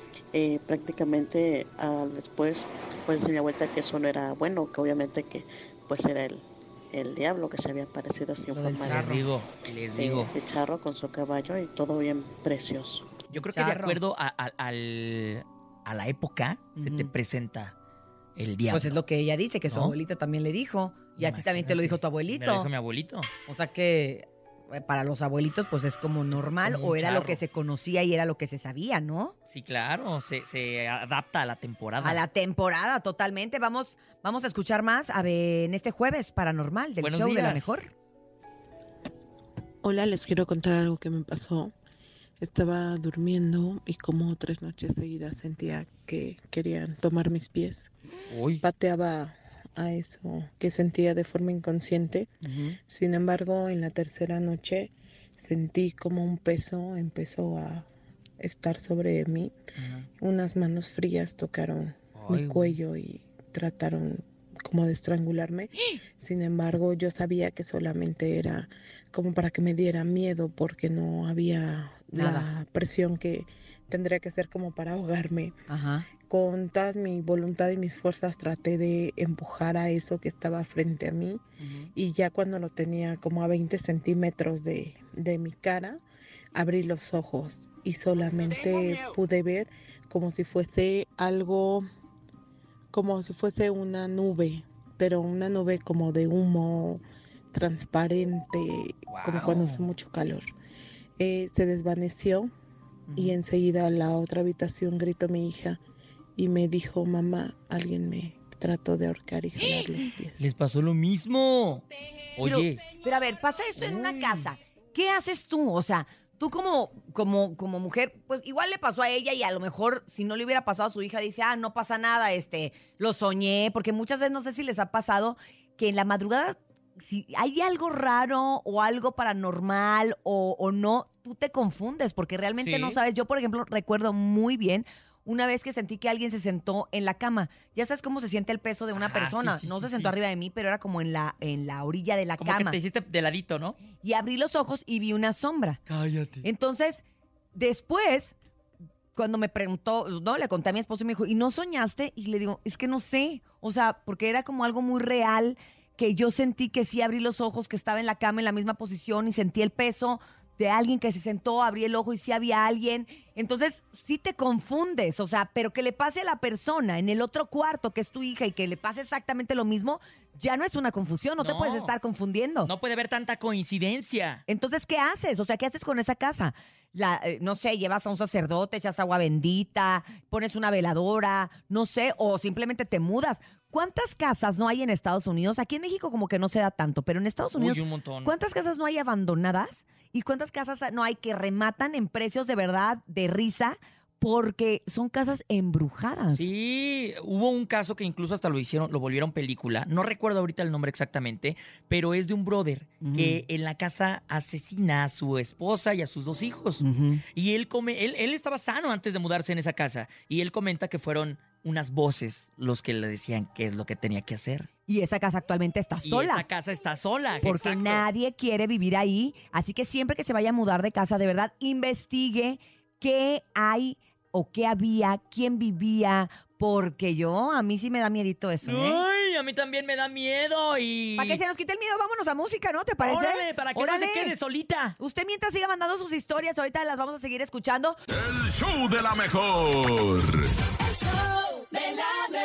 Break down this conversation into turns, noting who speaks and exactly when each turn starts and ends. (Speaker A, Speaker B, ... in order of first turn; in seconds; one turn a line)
Speaker A: 0.3-9.1
Speaker B: 8.5-9.2
Speaker C: 8.8-10.3
Speaker A: 10.0-13.1
Speaker C: 13.3-17.7
Speaker B: 13.3-14.0
Speaker B: 16.8-17.1
Speaker C: 18.4-18.9
Speaker B: 18.7-22.7
Speaker C: 19.7-19.9
Speaker C: 21.2-23.3
Speaker B: 23.5-29.3
Speaker C: 26.6-27.4
Speaker C: 29.5-32.2
Speaker B: 32.0-37.9
Speaker C: 37.0-37.9
Speaker D: 39.8-41.7
Speaker D: 42.4-47.9
Speaker C: 48.3-48.6
Speaker D: 48.6-57.9
Speaker B: 52.4-52.8
Speaker D: 58.4-59.5
Speaker B: 59.8-60.0
Speaker D: 60.2-75.5
Speaker C: 62.1-62.7
Speaker B: 62.3-62.7
Speaker B: 72.1-72.5
Speaker B: 75.7-76.0
Speaker D: 76.2-81.4
Speaker B: 81.6-81.9
Speaker D: 81.9-86.0
Speaker D: 86.5-91.8
Speaker C: 88.6-89.0
Speaker D: 92.9-97.0
Speaker D: 97.5-100.5
Speaker C: 99.1-99.9
Speaker D: 101.2-102.5
Speaker B: 103.1-103.3
Speaker D: 103.1-105.8
Speaker D: 106.3-110.3
Speaker C: 110.4-112.8
Speaker B: 112.4-142.8
Speaker C: 113.8-114.5
Speaker C: 132.6-132.9
Speaker C: 138.9-140.1
Speaker C: 142.4-143.8
Speaker B: 144.0-145.8
Speaker C: 145.9-146.4
Speaker B: 146.4-147.0
Speaker B: 147.5-148.3
Speaker B: 149.1-172.7
Speaker C: 171.4-171.9
Speaker C: 172.6-174.4
Speaker B: 174.5-196.5
Speaker C: 187.6-188.3
Speaker C: 196.3-206.8
Speaker B: 203.0-203.4
Speaker B: 206.8-207.2
Speaker C: 207.3-214.7
Speaker B: 214.9-216.4
Speaker C: 216.0-218.1
Speaker B: 217.4-229.0
Speaker C: 228.6-231.4
Speaker B: 231.2-234.3
Speaker C: 233.0-234.9
Speaker B: 235.0-238.0
Speaker E: 238.1-240.5